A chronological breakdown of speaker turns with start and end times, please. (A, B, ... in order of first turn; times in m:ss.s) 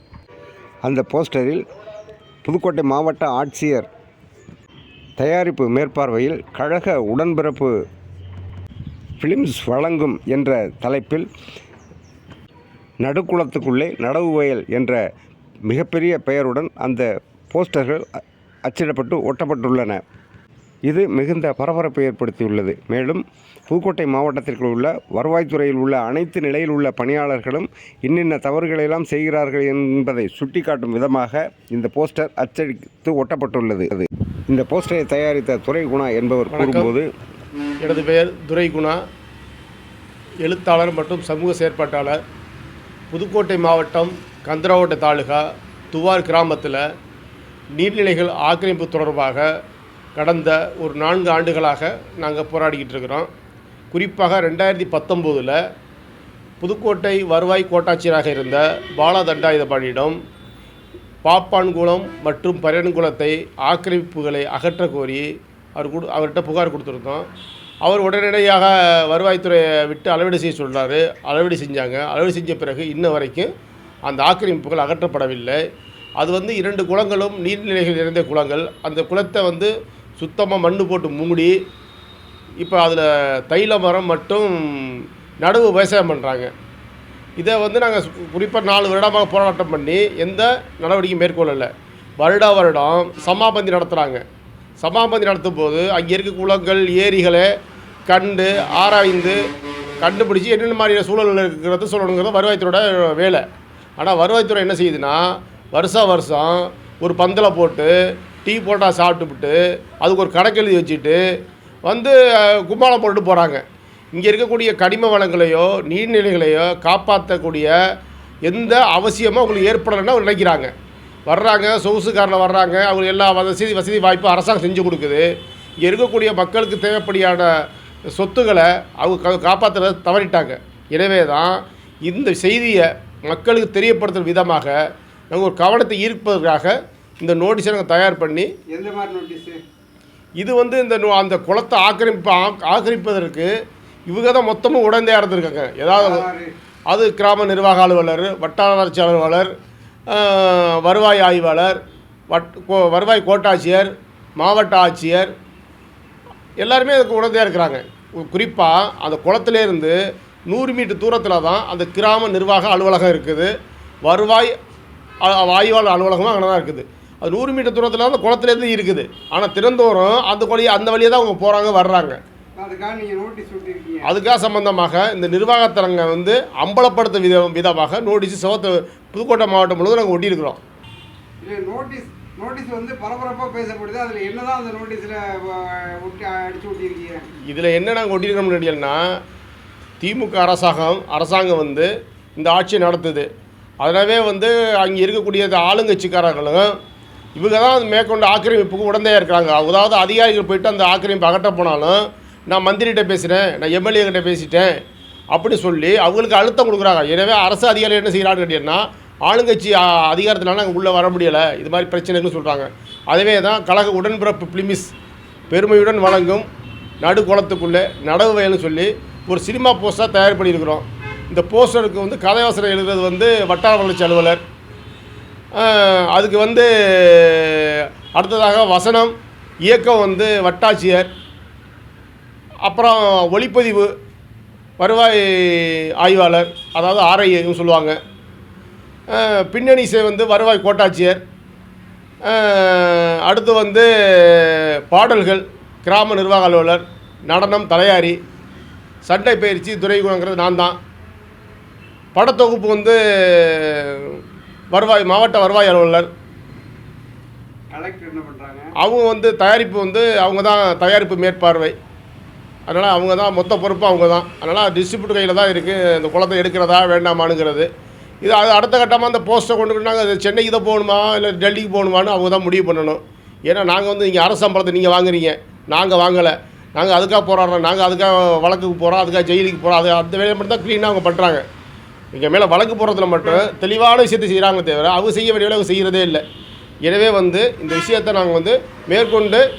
0:00.8-0:01.6 A
0:02.4-0:03.9 A
0:05.2-0:07.7 A
0:09.2-0:11.3 A
0:13.0-0:15.0 A
0:15.7-0:18.0 A
0:18.7-0:20.0 A
0:20.9-0:37.1 A
0:36.5-0:36.9 B
0:37.8-0:39.0 B
0:40.4-0:42.2 B
0:43.1-0:46.8 B
0:47.8-0:49.4 B
0:50.2-0:53.3 B
0:53.9-0:55.6 B
0:56.6-1:00.2 B
1:01.2-1:07.2 B
1:07.8-1:13.5 B
1:14.0-1:15.6 B
1:16.2-1:21.5 B
1:22.6-1:26.5 B
1:27.4-1:34.2 B
1:34.8-1:37.5 B
1:38.1-1:39.4 B
1:40.0-1:43.4 B
1:44.0-1:47.9 B
1:48.4-1:51.2 B
1:51.8-1:53.6 B
1:54.1-1:57.7 B
1:58.4-2:00.7 B
2:01.3-2:05.2 B
2:05.8-2:07.5 B
2:08.1-2:14.8 B
2:15.3-2:18.5 B
2:18.7-2:19.6 C
2:20.4-2:23.5 B
2:24.1-2:26.2 B
2:25.9-2:26.5 C
2:26.9-2:29.5 B
2:30.1-2:31.8 B
2:32.3-2:35.3 B
2:36.6-2:40.0 B
2:40.5-2:43.5 B
2:44.0-2:44.5 B
2:45.2-2:52.2 B
2:52.6-2:54.1 C
2:54.0-3:00.6 B
3:01.4-3:07.2 C
3:07.5-3:09.0 B
3:10.0-3:13.3 B
3:13.8-3:16.7 B
3:17.4-3:24.7 B
3:25.3-3:34.9 B
3:35.5-3:36.4 B
3:37.0-3:44.4 B
3:45.6-3:49.1 B
3:49.6-3:51.1 B
3:52.6-3:53.9 B
3:54.8-3:58.0 B
3:59.1-4:01.2 B
4:02.2-4:08.2 B
4:09.0-4:10.8 B
4:12.1-4:14.2 B
4:14.7-4:16.1 B
4:17.7-4:18.7 C
4:18.8-4:21.7 B
4:22.7-4:27.7 B
4:28.2-4:41.4 B
4:42.1-4:46.2 B
4:46.8-4:49.4 B